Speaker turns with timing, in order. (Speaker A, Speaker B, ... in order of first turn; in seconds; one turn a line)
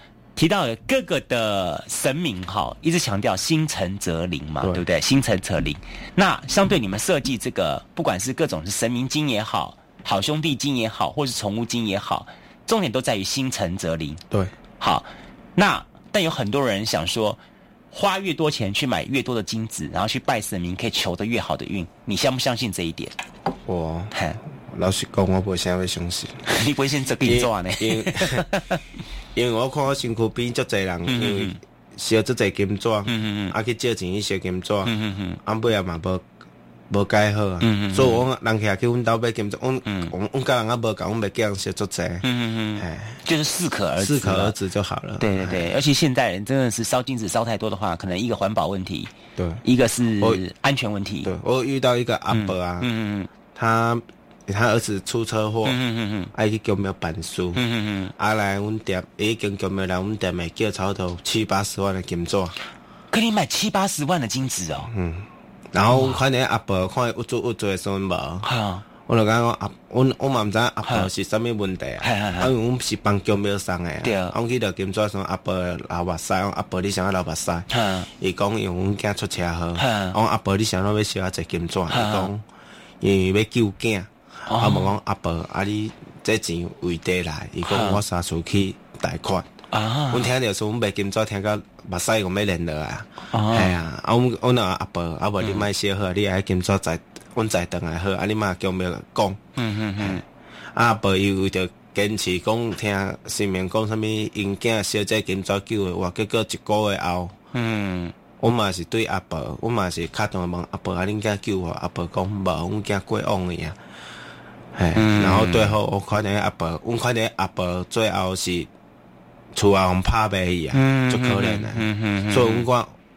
Speaker A: 0.3-14.2
Speaker A: 14.8-17.4
Speaker A: 17.9-23.1
Speaker B: 23.6-26.5
Speaker A: 24.1-24.4
Speaker A: 26.5-28.8
Speaker B: 27.2-28.5
Speaker B: 29.3-36.2
Speaker A: 31.1-31.6
Speaker A: 33.1-33.5
Speaker A: 34.9-35.4
Speaker B: 36.9-42.2
Speaker A: 37.6-38.2
Speaker A: 39.9-40.1
Speaker A: 42.2-44.5
Speaker B: 42.8-43.2
Speaker B: 44.0-45.7
Speaker A: 45.2-49.1
Speaker B: 49.4-49.6
Speaker A: 49.6-51.3
Speaker B: 51.2-52.9
Speaker A: 52.3-53.3
Speaker B: 53.5-55.8
Speaker A: 55.6-56.3
Speaker B: 56.3-57.6
Speaker A: 57.5-58.1
Speaker B: 58.1-62.5
Speaker A: 63.1-64.9
Speaker B: 64.9-68.5
Speaker A: 68.4-68.8
Speaker B: 69.0-82.4
Speaker A: 72.0-72.5
Speaker A: 74.0-74.3
Speaker A: 77.7-78.1
Speaker A: 79.8-80.2
Speaker A: 81.9-82.3
Speaker B: 83.0-89.5
Speaker A: 84.5-84.9
Speaker A: 87.7-88.0
Speaker A: 89.7-90.3
Speaker B: 90.1-99.4
Speaker A: 93.3-93.7
Speaker A: 99.6-100.2
Speaker B: 100.0-100.2
Speaker B: 100.7-107.3
Speaker A: 107.5-108.1
Speaker B: 108.4-113.8
Speaker B: 114.7-118.7
Speaker A: 115.0-115.8
Speaker B: 119.5-123.0
Speaker A: 120.7-122.7